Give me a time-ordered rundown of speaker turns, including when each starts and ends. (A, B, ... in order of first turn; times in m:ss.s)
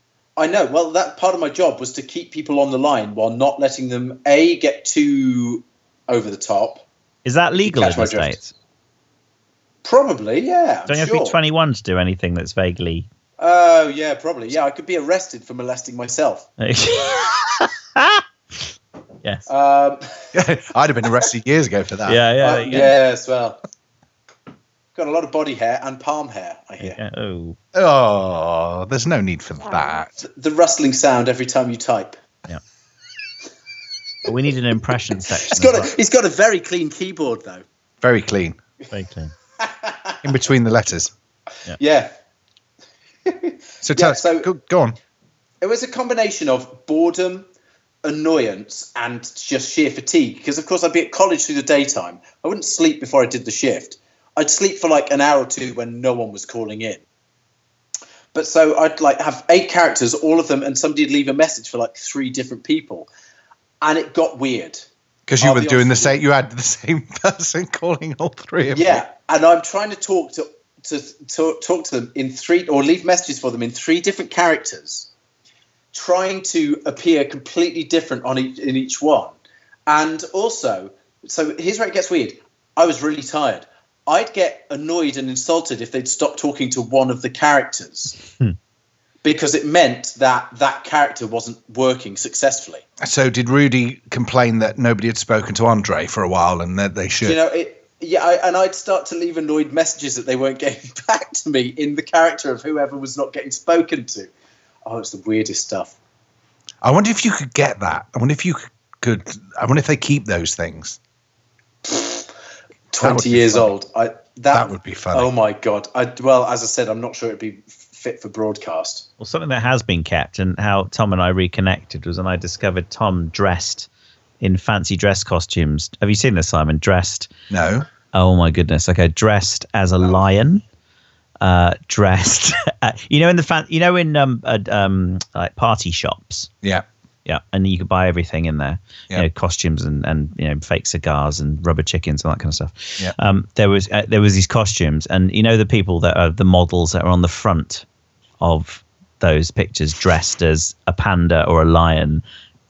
0:00.4-0:06.8 A
0:07.2-0:08.5 B
0:07.5-0:08.4 A
0:09.8-0:11.4 A
0:10.9-0:13.1 B
0:13.4-0:16.5 A
0:16.6-0:18.2 B
0:19.2-0:19.5 B
0:19.5-0:20.3 A
0:20.3-0:22.2 C
0:22.0-0:22.9 B
0:22.4-0:23.6 A
0:24.9-0:27.0 A
0:26.8-0:27.6 B
0:27.7-0:30.2 C
0:30.2-0:32.2 A
0:34.2-0:35.9 B
0:35.3-0:37.6 A
0:38.0-0:38.6 C
0:38.9-0:39.3 B
0:39.6-0:40.2 A
0:40.2-0:41.1 C
0:41.7-0:42.1 A
0:43.2-0:44.5 A
0:43.8-0:45.0 C
0:45.6-0:47.5 A
0:48.0-0:57.0 A
0:58.3-1:03.1 A
1:03.8-1:04.9 A
1:05.3-1:09.0 C
1:05.4-1:06.2 A
1:08.7-1:15.1 A
1:15.9-1:19.4 A
1:19.9-1:28.2 A
1:29.2-1:32.8 A
1:33.0-1:37.4 C
1:37.2-1:44.3 A
1:44.8-1:45.9 A
1:46.8-1:51.0 C
1:51.8-1:52.3 A
1:52.9-1:59.1 A
1:53.0-1:53.7 C
1:54.5-1:55.3 C
1:59.2-2:03.9 B
2:04.4-2:07.3 B
2:07.5-2:07.9 C
2:08.1-2:10.6 B
2:11.4-2:16.5 B
2:17.2-2:27.8 B
2:28.4-2:32.2 B